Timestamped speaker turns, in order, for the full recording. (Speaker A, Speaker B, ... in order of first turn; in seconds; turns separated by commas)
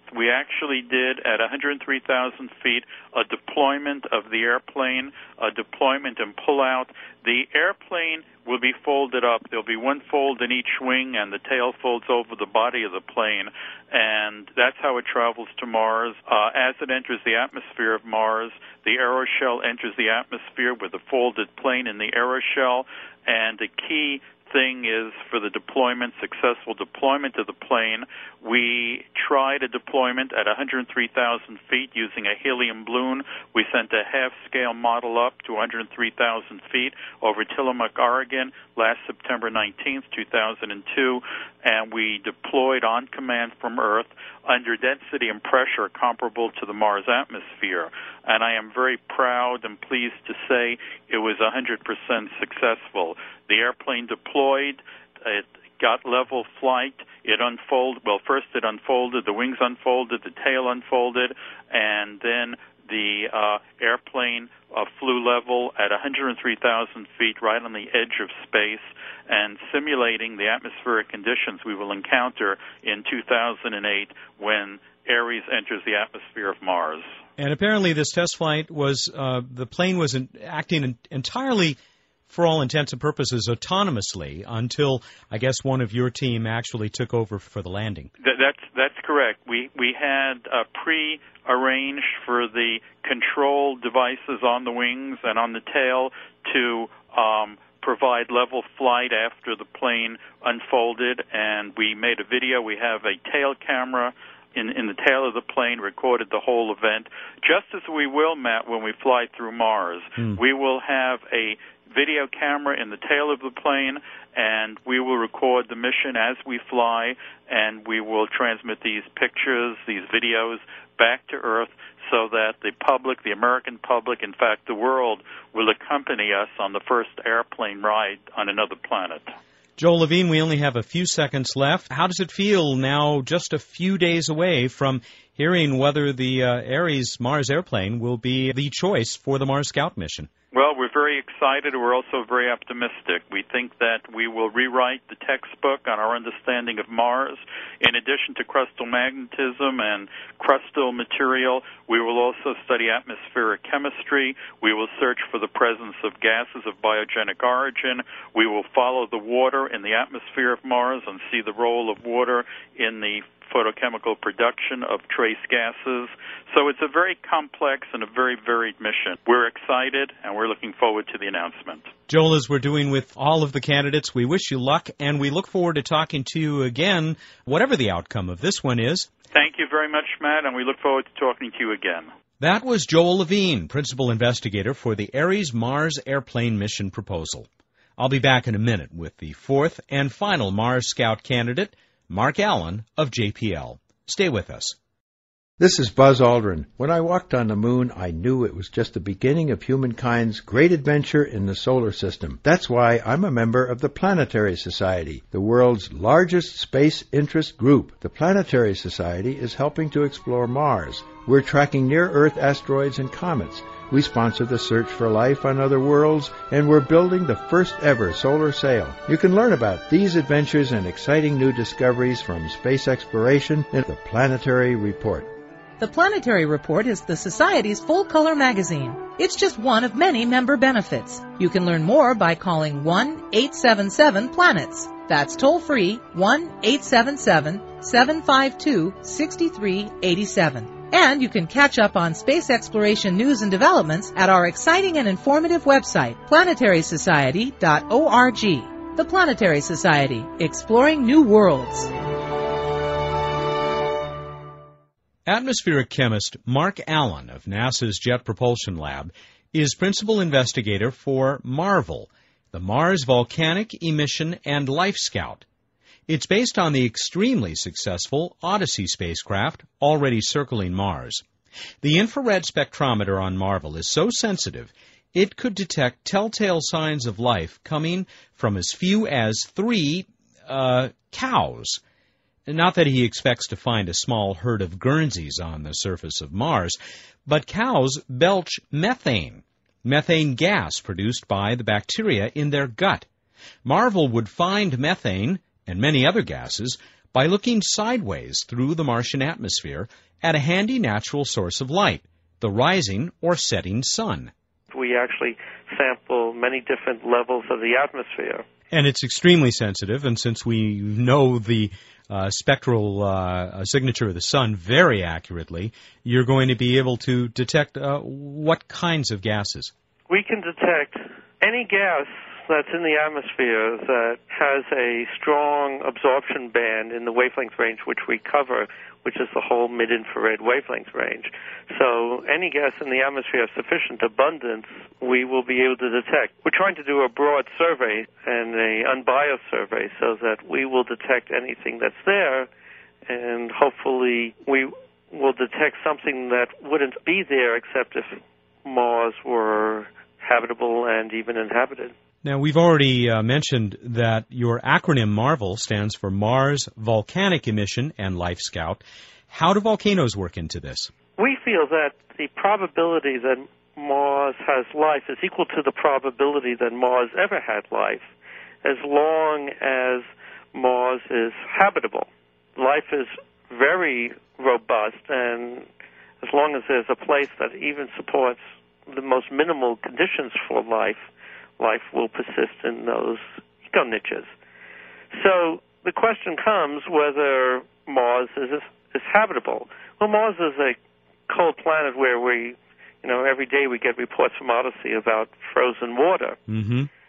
Speaker A: 0.1-77.1, Speaker B: 77.4-81.8, Speaker B: 82.3-88.1, Speaker A: 88.2-129.3, Speaker B: 129.8-140.3, Speaker A: 140.5-171.9, Speaker B: 172.1-179.1, Speaker A: 179.3-182.1, Speaker B: 182.4-194.8, Speaker C: 195.6-225.3, Speaker D: 225.8-251.9, Speaker B: 255.3-265.4, Speaker B: 266.1-271.2, Speaker B: 271.8-281.8, Speaker B: 282.5-293.1, Speaker B: 293.6-304.3, Speaker E: 304.7-308.4, Speaker B: 308.7-319.7, Speaker E: 320.1-342.5, Speaker E: 343.1-351.9, Speaker B: 352.2-360.9, Speaker E: 361.2-368.1, Speaker E: 368.6-375.7, Speaker E: 376.2-381.1, Speaker E: 381.6-384.3, Speaker E: 385.1-390.8, Speaker E: 391.3-396.4, Speaker B: 396.5-396.9